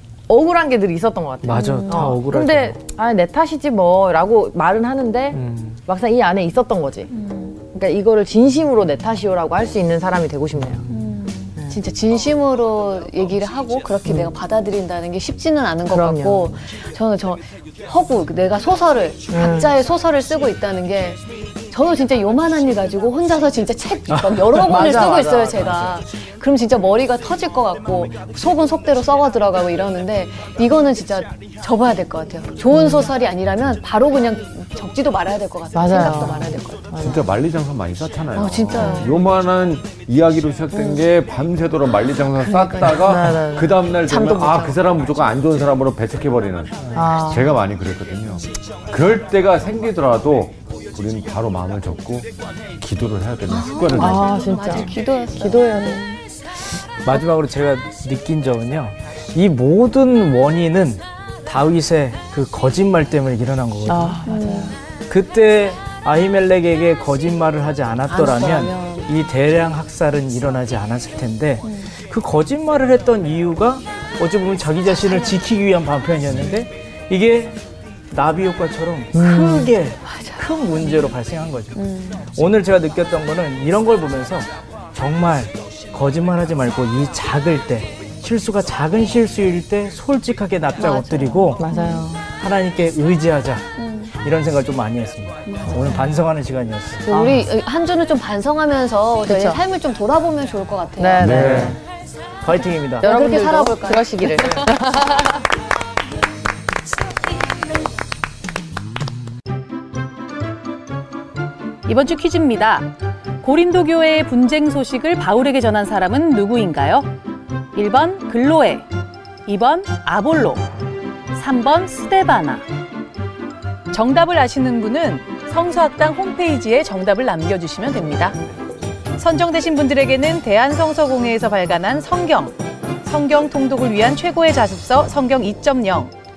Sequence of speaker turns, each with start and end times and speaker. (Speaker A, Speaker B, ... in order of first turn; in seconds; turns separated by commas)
Speaker A: 0.3-7.1, Speaker B: 1.4-2.8, Speaker C: 1.5-2.2, Speaker B: 5.3-5.8, Speaker C: 7.1-7.6, Speaker A: 7.7-10.8, Speaker C: 10.9-36.9, Speaker A: 14.1-14.3, Speaker A: 15.9-16.5, Speaker A: 19.3-19.7, Speaker B: 24.1-24.9, Speaker A: 24.6-25.7, Speaker A: 32.8-33.0, Speaker A: 35.7-37.3, Speaker D: 37.0-54.3, Speaker C: 38.4-39.2, Speaker C: 40.7-41.0, Speaker C: 42.4-43.1, Speaker A: 43.0-43.8, Speaker C: 44.1-44.8, Speaker A: 47.0-47.5, Speaker C: 53.5-56.2, Speaker A: 53.9-56.0, Speaker B: 57.0-64.2, Speaker A: 63.9-64.8, Speaker C: 64.2-64.8, Speaker B: 65.1-77.6, Speaker C: 68.1-69.1, Speaker C: 71.7-71.9, Speaker B: 78.1-91.6, Speaker A: 79.1-79.7, Speaker C: 79.3-80.6, Speaker C: 81.8-82.3, Speaker C: 90.8-92.1, Speaker A: 91.6-92.2, Speaker B: 92.4-93.7, Speaker C: 93.8-94.1, Speaker B: 94.2-97.1, Speaker C: 95.5-96.2, Speaker C: 97.0-101.7, Speaker A: 97.1-97.5, Speaker A: 99.3-99.6, Speaker A: 101.0-101.8, Speaker D: 101.2-101.7, Speaker B: 101.2-101.8, Speaker B: 102.4-103.2, Speaker C: 103.0-105.1, Speaker A: 103.0-105.3, Speaker E: 111.9-112.9, Speaker E: 113.4-117.1, Speaker E: 117.7-118.9, Speaker E: 119.5-120.6, Speaker E: 121.3-122.6, Speaker E: 123.9-128.3, Speaker E: 129.2-136.1